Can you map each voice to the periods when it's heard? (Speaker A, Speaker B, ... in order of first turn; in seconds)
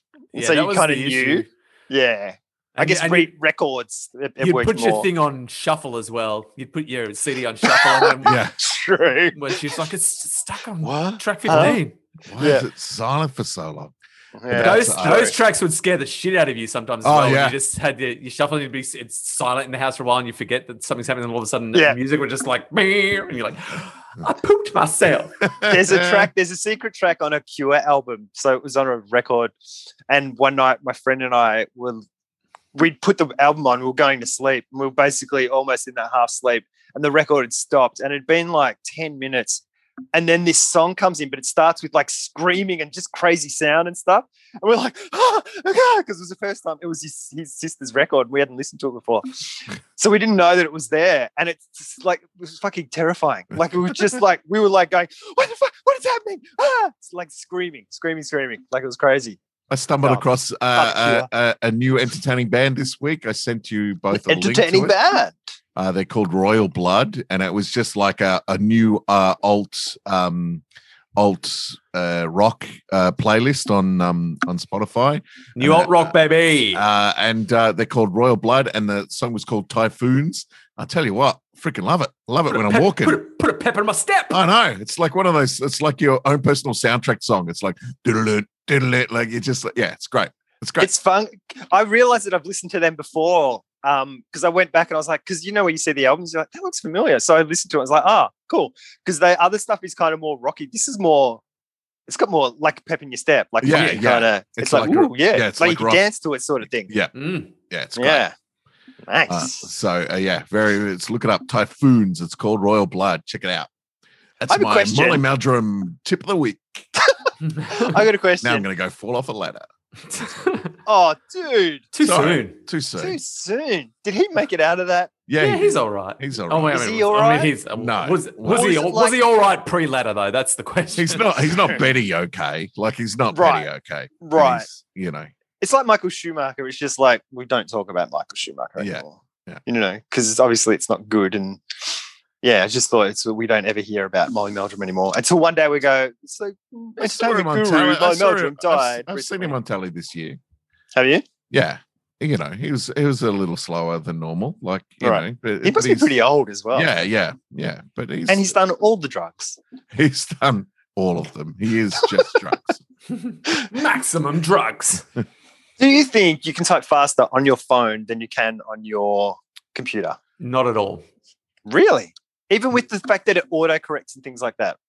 Speaker A: 0.3-1.5, 2.8-3.3, 4.4-8.3, 9.3-11.9, 14.5-25.4, 75.6-76.8, 82.5-84.4, 103.7-104.0, 107.1-107.5, 117.4-118.0, 120.1-120.7, 121.9-122.6, 125.4-131.3, 163.1-165.0, 170.4-171.0
Speaker B: 0.3-5.1, 7.6-9.8, 11.4-11.8, 12.4-12.7, 14.3-15.3, 25.7-29.5, 30.1-32.0, 32.7-59.4, 60.0-61.3, 64.1-65.4, 90.8-101.4, 102.1-106.9, 108.0-108.3, 109.0-109.7, 114.5-115.2, 117.0-118.6, 120.8-121.9, 123.0-125.1, 126.7-127.5, 128.4-129.2, 133.3-133.7, 134.2-134.7, 135.6-149.6, 150.9-151.2, 155.0-156.9, 158.3-159.6, 165.8-170.2, 171.7-174.8
Speaker C: 8.2-8.6, 10.8-13.9, 14.5-15.3, 17.0-17.5, 25.5-26.2, 59.7-64.9, 65.8-70.6, 71.2-76.1, 76.7-83.2, 84.3-90.9, 103.6-106.0, 106.9-107.1, 107.7-108.3, 109.3-113.7, 114.4-116.9, 118.4-120.3, 122.0-123.2, 125.3-126.8, 127.8-128.7, 130.9-135.3, 138.8-139.6, 147.0-150.4, 151.5-156.1, 156.7-158.6, 159.9-162.8